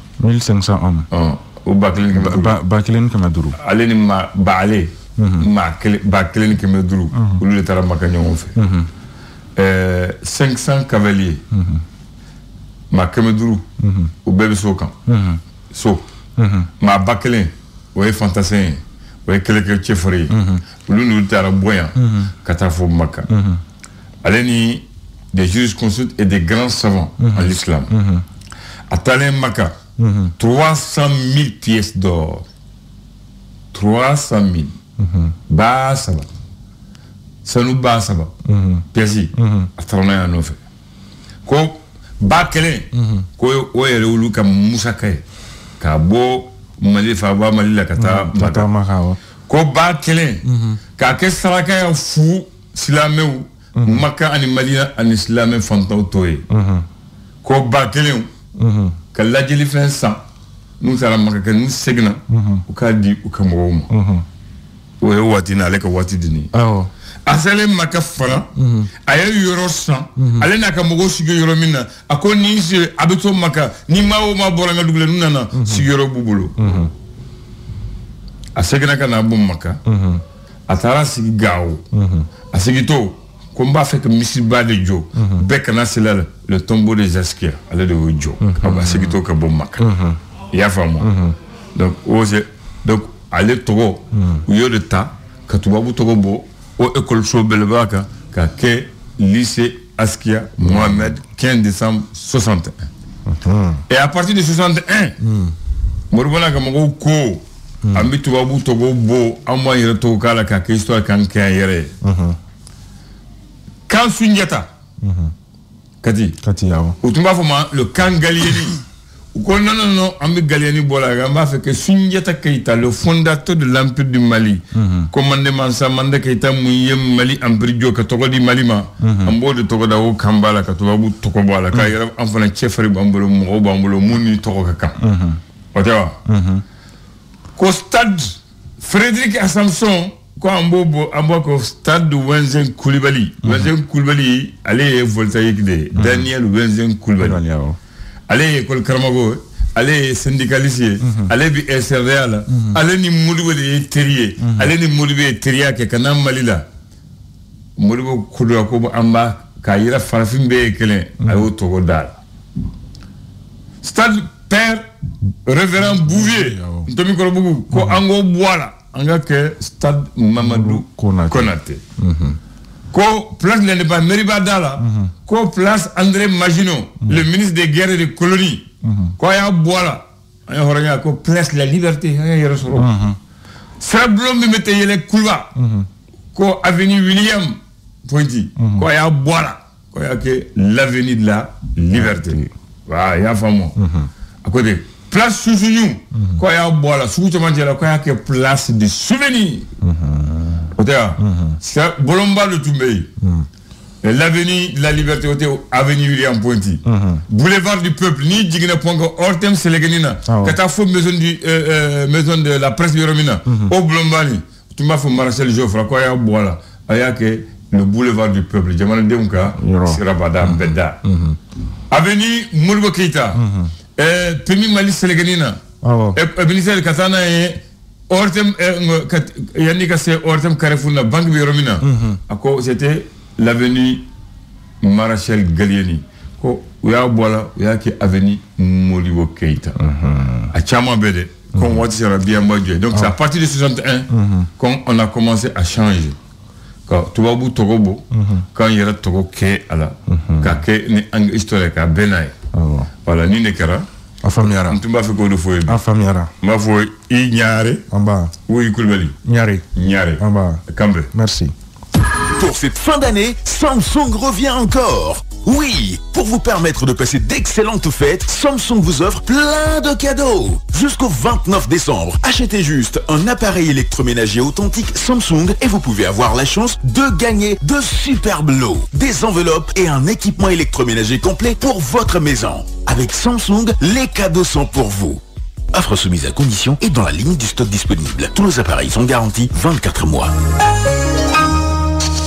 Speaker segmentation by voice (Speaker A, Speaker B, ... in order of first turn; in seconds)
Speaker A: 0.2-1.1, 2.1-3.5, 5.2-5.5, 7.1-7.4, 8.6-8.9, 11.5-11.8, 13.8-14.1, 15.1-15.4, 16.4-16.7, 20.3-20.6, 21.9-22.3, 23.3-23.6, 27.2-28.2, 30.0-30.3, 35.0-35.3, 38.5-39.7, 42.9-43.2, 48.0-49.2, 50.5-50.8, 53.8-54.0, 56.5-56.9, 58.6-59.0, 62.3-62.6, 63.9-64.2, 66.5-66.9, 68.6-68.9, 70.2-70.5, 75.5-75.9, 76.6-76.9, 79.8-80.2, 81.9-82.3, 85.2-85.5, 88.4-89.2, 89.8-90.2, 91.0-91.3, 94.1-94.4, 100.6-101.1, 103.3-103.8, 105.2-105.5, 107.8-108.1, 112.0-112.4, 115.0-115.3, 116.4-117.0, 124.7-125.1, 129.0-129.3, 135.0-135.4, 136.2-136.6, 143.4-143.7, 145.9-146.3, 147.2-147.8, 151.0-151.3, 152.5-152.8, 154.4-154.7, 165.8-166.9, 167.7-168.0, 170.4-172.4, 174.8-175.1, 178.8-179.1, 182.8-183.2, 185.5-185.9, 188.6-188.9, 191.9-192.5, 193.8-194.1, 196.1-196.4, 199.8-201.6, 203.2-203.5, 206.8-207.2, 210.2-210.6, 213.5-213.7, 219.6-221.4, 223.3-223.7, 225.8-226.2, 231.8-232.2, 239.8-240.5, 241.6-241.8, 244.1-244.5, 248.1-248.4, 250.1-250.6, 252.5-252.9, 254.2-254.8, 255.7-256.3, 257.9-258.3, 259.2-261.5
Speaker B: 1.1-2.6, 3.6-8.6, 9.6-11.4, 12.9-13.7, 14.2-14.9, 15.7-16.1, 16.8-23.3, 24.2-27.9, 28.9-29.8, 30.4-32.4, 33.7-34.7, 35.5-36.3, 37.4-38.3, 38.9-40.6, 41.5-45.2, 45.8-48.7, 49.5-50.4, 51.0-56.4, 57.4-58.3, 59.1-60.2, 60.8-63.9, 65.0-66.5, 67.2-68.5, 69.0-76.7, 78.5-79.8, 80.7-81.8, 82.5-89.9, 90.5-91.1, 91.7-102.9, 103.9-105.2, 106.1-111.9, 113.9-114.7, 116.0-116.4, 117.0-118.8, 119.3-135.0, 135.7-136.2, 137.6-147.4, 148.3-156.7, 157.8-162.2, 163.8-164.9, 165.4-171.8, 172.9-178.7, 179.2-182.9, 183.8-185.5, 186.3-193.8, 194.4-199.7, 200.8-203.1, 204.0-221.0, 221.9-223.4, 224.0-225.6, 226.1-234.1, 234.8-239.8, 240.5-246.2, 246.9-252.3, 253.0-253.8, 254.7-255.8, 256.4-257.8, 258.5-259.1, 259.7-261.1
Speaker C: 262.3-285.2, 285.7-290.3